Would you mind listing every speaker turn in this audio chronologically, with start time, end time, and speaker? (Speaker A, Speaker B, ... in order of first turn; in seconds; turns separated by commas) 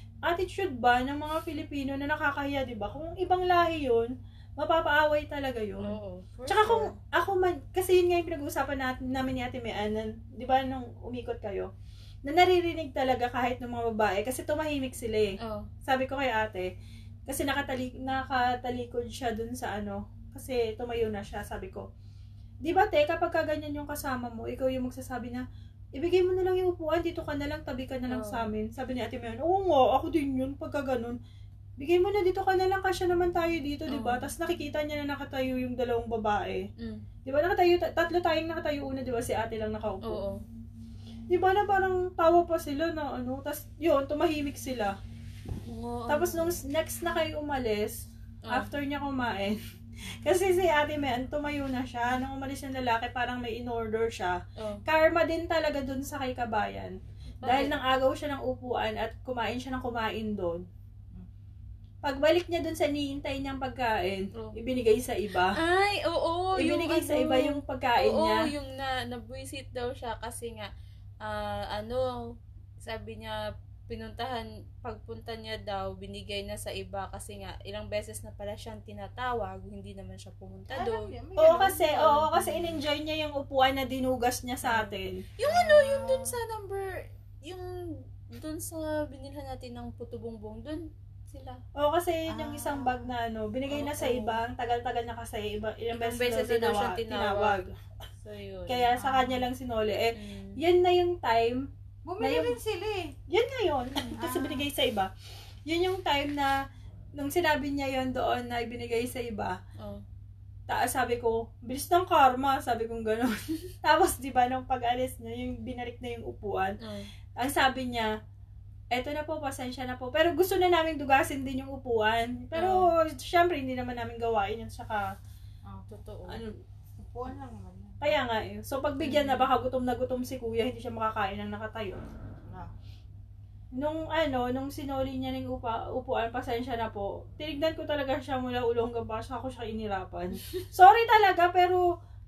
Speaker A: 0.2-5.9, Speaker B: 5.8-7.0, Speaker A: 6.5-11.7, Speaker A: 12.2-16.7, Speaker B: 15.4-15.7, Speaker A: 17.3-21.9, Speaker A: 22.6-25.4, Speaker A: 25.9-31.2, Speaker B: 28.1-28.5, Speaker A: 31.8-36.7, Speaker B: 33.9-34.3, Speaker B: 36.8-37.0, Speaker A: 37.2-40.2, Speaker B: 40.1-40.4, Speaker A: 41.3-45.0, Speaker B: 45.6-46.6, Speaker A: 46.1-49.6, Speaker A: 50.2-60.6, Speaker B: 57.4-57.8, Speaker A: 62.0-65.5, Speaker B: 65.5-70.7, Speaker A: 66.5-68.5, Speaker B: 71.2-72.2, Speaker B: 72.8-81.1, Speaker C: 80.7-82.8, Speaker A: 81.4-85.2, Speaker B: 84.6-91.6, Speaker C: 85.4-86.4, Speaker A: 91.8-97.7, Speaker C: 92.3-93.1, Speaker B: 93.7-94.4, Speaker B: 95.9-97.7, Speaker B: 98.2-98.9, Speaker A: 98.7-101.7, Speaker C: 99.0-99.4, Speaker B: 100.1-100.6, Speaker C: 102.0-103.1, Speaker A: 102.2-102.6, Speaker A: 103.3-105.1, Speaker C: 104.2-104.5, Speaker A: 105.7-106.5, Speaker A: 107.2-109.6, Speaker A: 110.7-116.8, Speaker B: 116.8-117.1, Speaker A: 117.4-118.1, Speaker A: 118.9-125.1, Speaker B: 122.5-122.8, Speaker B: 125.9-126.4, Speaker C: 127.0-128.1, Speaker A: 128.0-132.0, Speaker B: 129.0-129.4, Speaker C: 132.4-132.7, Speaker A: 133.8-141.9